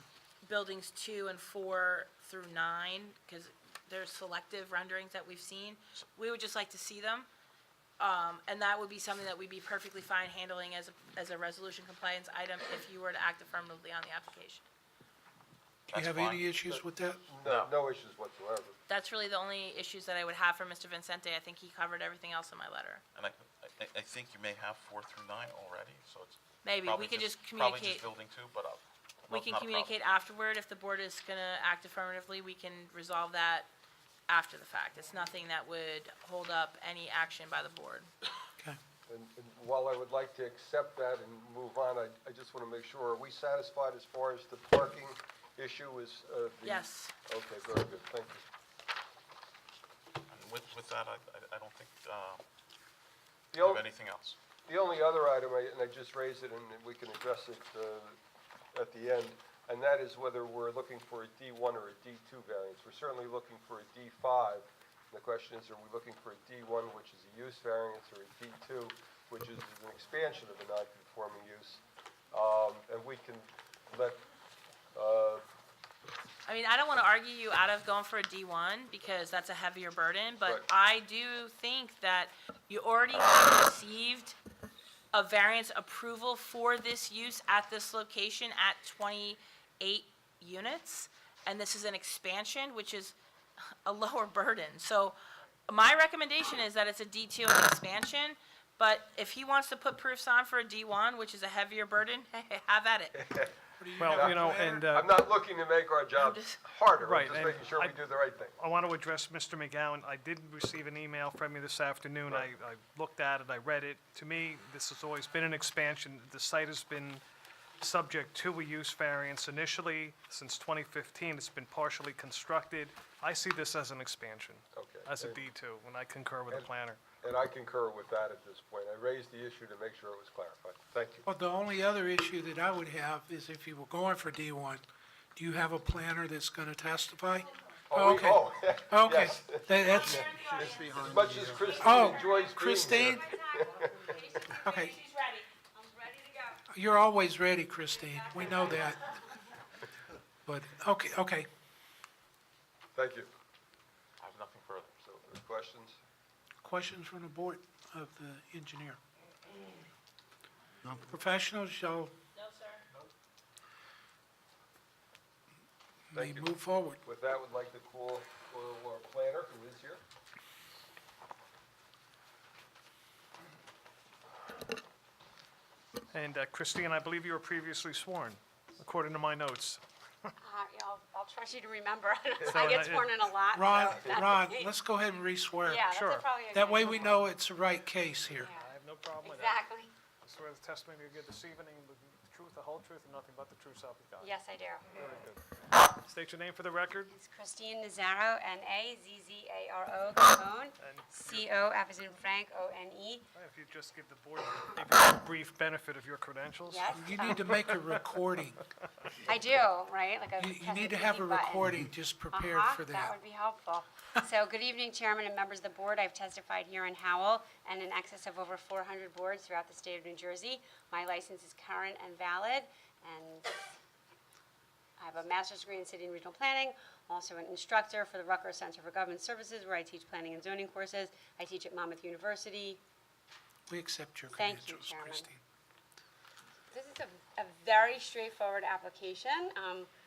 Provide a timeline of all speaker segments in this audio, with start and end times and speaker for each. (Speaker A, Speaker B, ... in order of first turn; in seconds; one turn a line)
Speaker A: 0.4-7.3
Speaker A: 8.0-14.6
Speaker B: 15.9-16.5
Speaker C: 15.9-17.2
Speaker D: 16.6-18.8
Speaker B: 17.4-17.7
Speaker A: 18.9-23.0
Speaker B: 23.1-29.9
Speaker A: 26.6-28.1
Speaker A: 29.3-33.7
Speaker A: 34.3-38.1
Speaker D: 39.1-48.5
Speaker A: 46.6-47.1
Speaker B: 50.3-52.4
Speaker D: 53.5-53.8
Speaker B: 53.6-54.4
Speaker D: 54.7-58.2
Speaker D: 58.7-74.2
Speaker D: 74.9-75.4
Speaker A: 76.4-84.4
Speaker A: 85.1-93.2
Speaker A: 93.8-95.2
Speaker A: 95.7-103.2
Speaker D: 103.2-108.6
Speaker C: 103.8-104.8
Speaker E: 104.0-105.1
Speaker A: 106.2-106.6
Speaker E: 107.0-108.0
Speaker E: 108.6-117.2
Speaker E: 117.8-127.0
Speaker D: 124.7-125.4
Speaker D: 127.2-131.2
Speaker C: 131.2-134.8
Speaker C: 135.3-140.4
Speaker D: 137.9-144.2
Speaker F: 139.9-145.0
Speaker B: 140.4-141.6
Speaker C: 141.8-143.3
Speaker C: 144.5-145.0
Speaker A: 144.8-145.4
Speaker F: 145.7-146.6
Speaker C: 146.7-149.1
Speaker F: 147.9-149.4
Speaker C: 150.4-151.5
Speaker D: 152.9-153.3
Speaker B: 154.2-155.0
Speaker D: 155.0-156.0
Speaker C: 156.6-159.0
Speaker C: 160.9-162.1
Speaker A: 162.3-162.8
Speaker C: 166.1-167.0
Speaker D: 166.1-166.5
Speaker D: 167.0-170.0
Speaker E: 176.1-180.3
Speaker F: 180.4-184.7
Speaker D: 182.4-182.7
Speaker E: 182.4-183.1
Speaker C: 183.5-185.9
Speaker D: 183.9-184.2
Speaker F: 185.7-187.2
Speaker E: 185.9-186.3
Speaker C: 186.4-188.5
Speaker F: 188.4-188.7
Speaker E: 188.4-189.6
Speaker F: 189.2-189.9
Speaker E: 190.2-194.3
Speaker F: 194.2-194.9
Speaker E: 194.9-197.1
Speaker F: 197.1-203.2
Speaker E: 200.8-201.7
Speaker E: 203.3-207.8
Speaker F: 206.7-207.4
Speaker C: 206.9-208.6
Speaker F: 209.2-211.7
Speaker C: 210.4-213.2
Speaker F: 212.3-223.6
Speaker F: 225.0-232.8
Speaker C: 233.7-235.4
Speaker F: 234.3-235.3
Speaker F: 236.7-239.9